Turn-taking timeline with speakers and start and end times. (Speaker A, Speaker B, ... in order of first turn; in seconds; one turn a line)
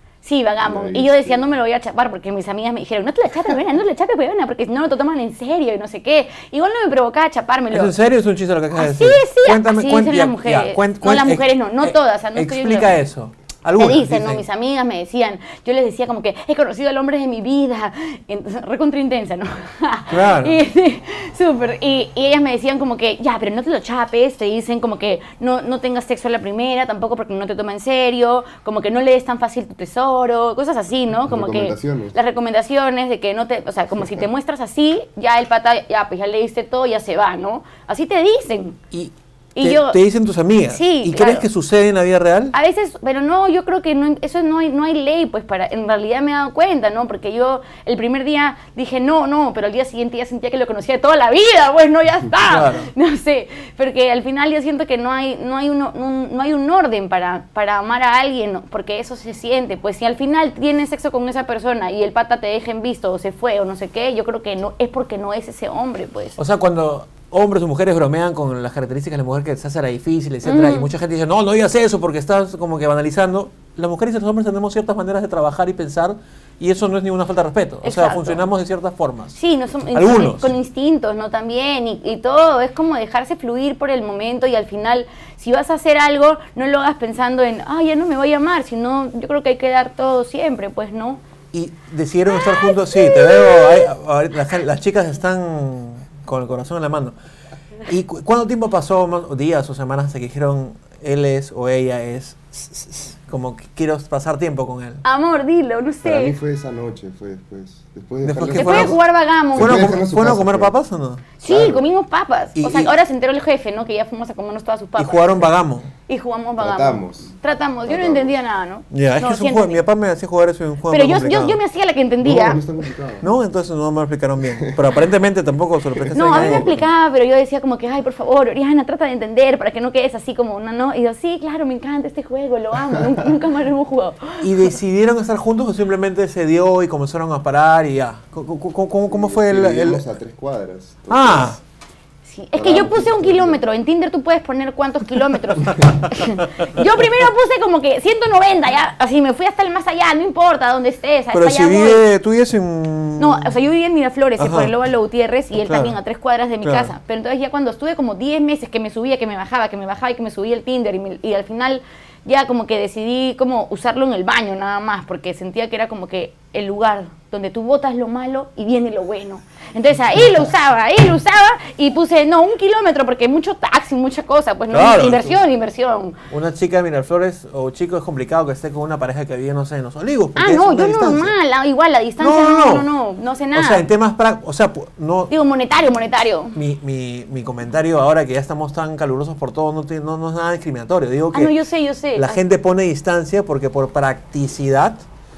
Speaker A: 0.2-7.9
Speaker B: 0.6-1.6
Speaker C: 7.7-14.4
Speaker A: 8.7-12.9
Speaker A: 13.8-38.8
Speaker C: 20.1-20.6
Speaker B: 31.2-32.1
Speaker C: 38.9-42.5
Speaker A: 39.5-40.0
Speaker A: 40.7-41.5
Speaker A: 42.5-66.4
Speaker C: 52.4-52.9
Speaker C: 66.4-79.4
Speaker A: 70.4-70.9
Speaker A: 77.8-78.4
Speaker A: 79.3-91.2
Speaker C: 79.9-80.5
Speaker C: 91.5-97.1
Speaker A: 92.3-93.9
Speaker C: 97.8-105.0
Speaker A: 105.0-106.3
Speaker B: 106.0-110.8
Speaker C: 108.2-109.0
Speaker A: 108.5-109.9
Speaker C: 109.5-111.2
Speaker A: 111.4-115.5
Speaker B: 111.4-111.8
Speaker C: 112.6-112.9
Speaker C: 115.0-115.9
Speaker A: 116.1-119.8
Speaker B: 116.6-118.4
Speaker C: 118.9-121.6
Speaker A: 120.9-122.6
Speaker B: 122.2-123.3
Speaker C: 123.2-126.8
Speaker B: 124.4-125.0
Speaker B: 125.9-126.9
Speaker A: 126.1-134.7
Speaker C: 134.4-140.0
Speaker B: 139.1-141.6
Speaker C: 141.1-141.6
Speaker A: 142.2-152.0
Speaker B: 142.5-143.6
Speaker C: 151.3-153.5
Speaker A: 153.2-176.2
Speaker C: 154.4-154.7
Speaker C: 155.7-155.9
Speaker C: 156.6-156.9
Speaker C: 174.7-175.4
Speaker C: 176.3-181.3
Speaker A: 180.3-183.9
Speaker C: 182.2-182.9
Speaker C: 183.5-185.3
Speaker A: 185.3-186.6
Speaker C: 186.5-191.5
Speaker A: 191.3-192.4
Speaker C: 192.2-195.0